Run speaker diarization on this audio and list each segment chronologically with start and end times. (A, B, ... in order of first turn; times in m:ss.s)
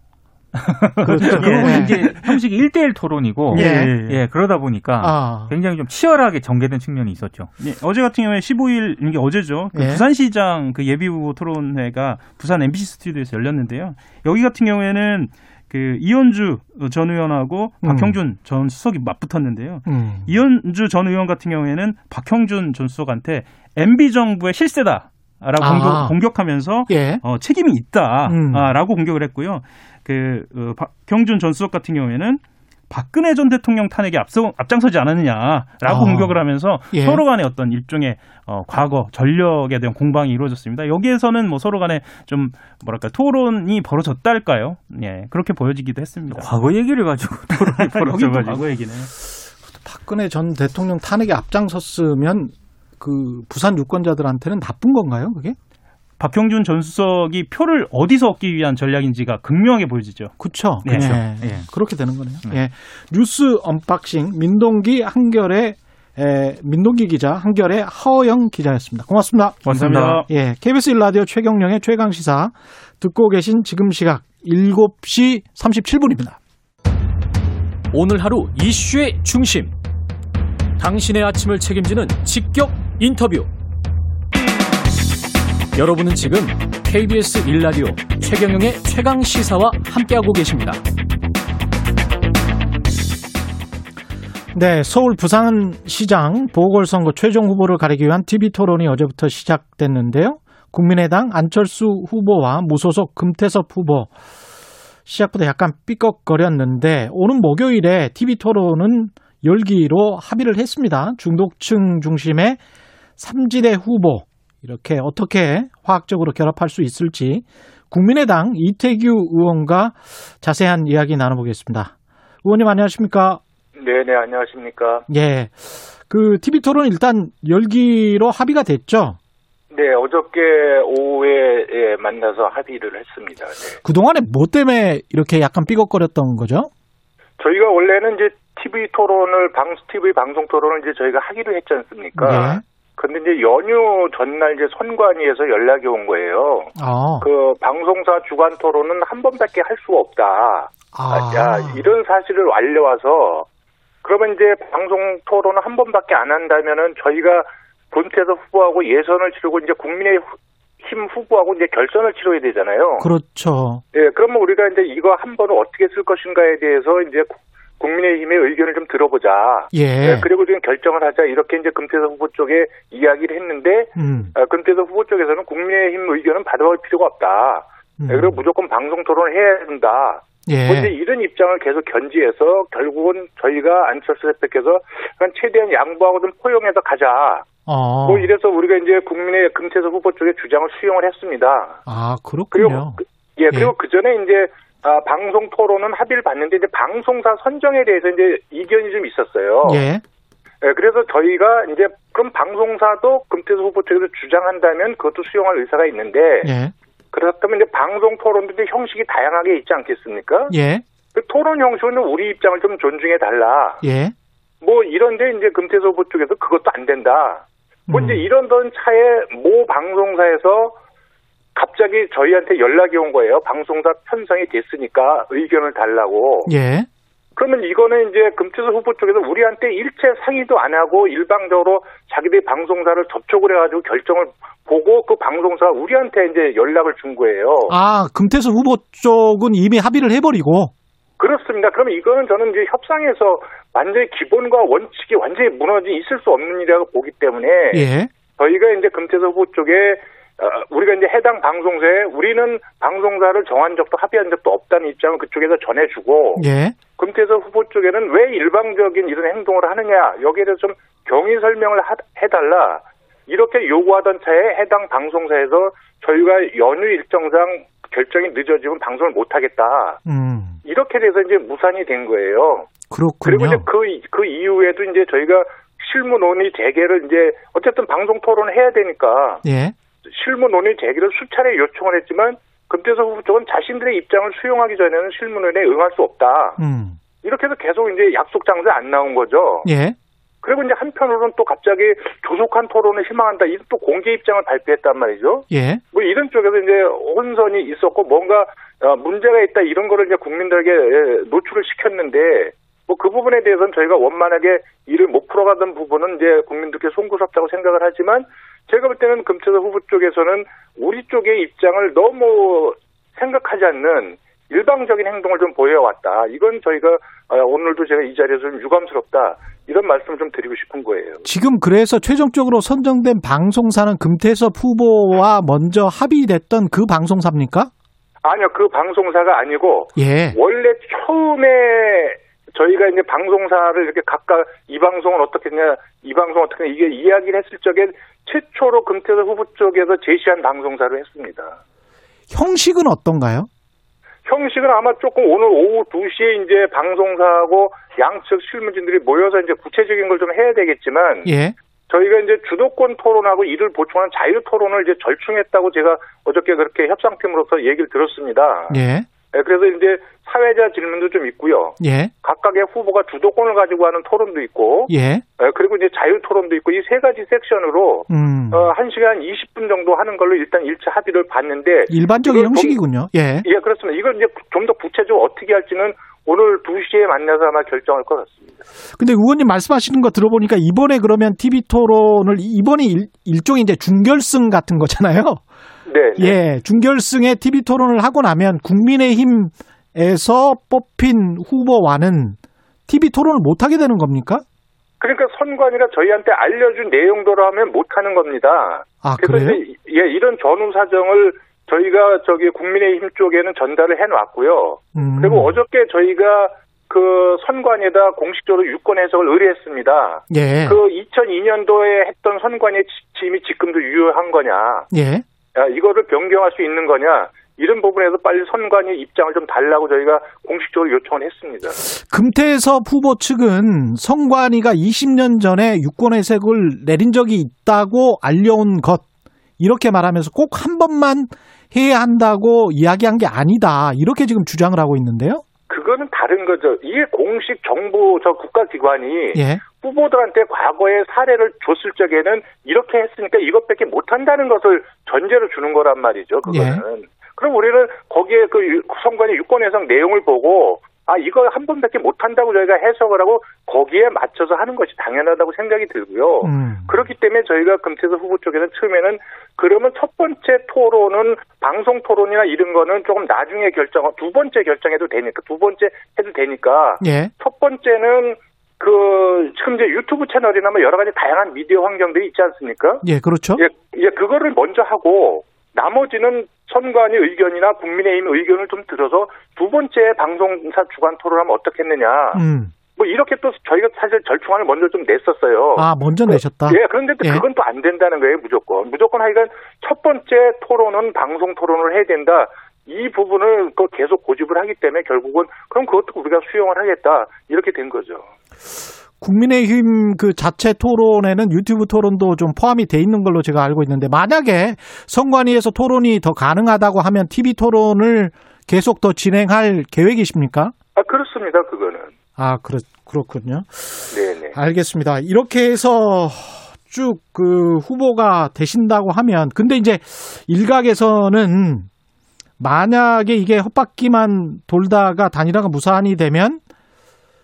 0:00.5-0:02.4 A
0:01.0-0:02.1 B
0:01.1-0:07.5 C
0:03.5-0:04.2 A
0:03.5-0:04.0 B
0:05.0-0:05.5 B
0:07.6-0:46.5 A
0:09.7-0:10.0 B
0:17.8-0:18.2 B
0:19.9-0:20.3 B
0:25.6-0:26.2 B
0:26.9-0:27.2 B
0:28.2-0:28.7 B
0:35.8-0:37.2 B
0:46.3-0:48.6 C
0:47.5-0:49.1 A
0:49.7-0:55.6 B
0:56.2-1:01.2 A
1:00.4-1:16.4 B
1:01.0-1:01.7 C
1:09.6-1:10.3 A
1:09.7-1:10.2 C
1:17.9-1:19.8 D
1:20.8-1:23.5 D
1:25.7-1:30.8 D
1:34.5-1:44.1 B
1:45.0-1:52.6 B
1:53.2-2:01.9 B
2:02.4-2:03.4 B
2:03.8-2:05.0 E
2:05.1-2:09.2 B
2:09.7-2:13.8 E
2:13.8-2:16.7 B
2:17.4-2:33.5 E
2:22.2-2:22.6 B
2:26.8-2:27.3 B
2:30.9-2:31.8 B
2:34.0-2:43.1 E
2:43.0-2:43.8 B
2:43.9-3:07.5 E
2:49.7-2:50.3 B
2:54.0-2:54.3 B
2:58.0-2:58.4 B
3:00.4-3:00.9 B
3:07.6-3:08.3 B
3:08.0-3:11.8 E
3:11.8-3:13.7 B
3:12.5-3:19.8 E
3:19.6-3:20.0 B
3:20.6-3:26.5 E
3:26.4-3:26.7 B
3:27.1-3:30.5 E
3:30.5-3:30.8 B
3:31.1-3:33.8 E
3:33.8-3:34.1 B
3:34.6-3:40.8 E
3:37.9-3:38.3 B
3:41.5-3:46.5 E
3:46.4-3:46.9 B
3:47.4-3:57.7 E
3:57.7-4:00.7 B
4:01.2-4:16.4 E
4:07.7-4:08.1 B
4:16.4-4:16.8 B
4:17.0-4:30.0 E
4:30.0-4:30.6 B
4:30.6-4:32.7 E
4:32.9-4:33.6 B
4:33.2-4:39.4 E
4:39.4-4:39.7 B
4:40.0-4:46.6 E
4:46.6-4:47.0 B
4:47.2-4:49.7 E
4:49.6-4:50.0 B
4:50.4-5:21.2 E
4:55.5-4:55.8 B
5:21.2-5:27.7 B
5:28.2-5:41.6 E
5:30.0-5:30.4 B
5:42.3-5:43.5 B
5:44.2-5:51.3 E
5:51.2-5:51.5 B
5:51.9-5:58.8 E
5:58.7-5:59.1 B
5:59.3-6:12.8 E
6:01.8-6:02.1 B
6:04.9-6:05.2 B
6:08.1-6:08.7 B
6:11.9-6:13.5 B
6:13.4-6:18.6 E
6:19.0-6:25.4 B
6:25.9-6:26.3 E
6:26.2-6:34.4 B
6:35.0-6:54.9 E
6:39.0-6:39.6 B
6:44.9-6:45.6 B
6:50.3-6:50.8 B
6:54.9-6:55.2 B
6:55.5-7:01.8 E
7:01.8-7:09.0 B
7:09.6-7:15.4 B
7:15.7-7:53.0 E
7:19.3-7:19.6 B
7:26.5-7:26.8 B
7:36.4-7:37.0 B
7:47.0-7:47.3 B
7:53.0-7:53.6 B
7:53.6-8:02.4 E
8:02.3-8:02.7 B
8:02.9-8:18.3 E
8:05.8-8:07.4 B
8:19.2-8:30.7 B
8:31.0-8:32.1 E
8:32.4-8:41.9 B
8:34.1-8:34.5 E
8:42.6-8:46.6 B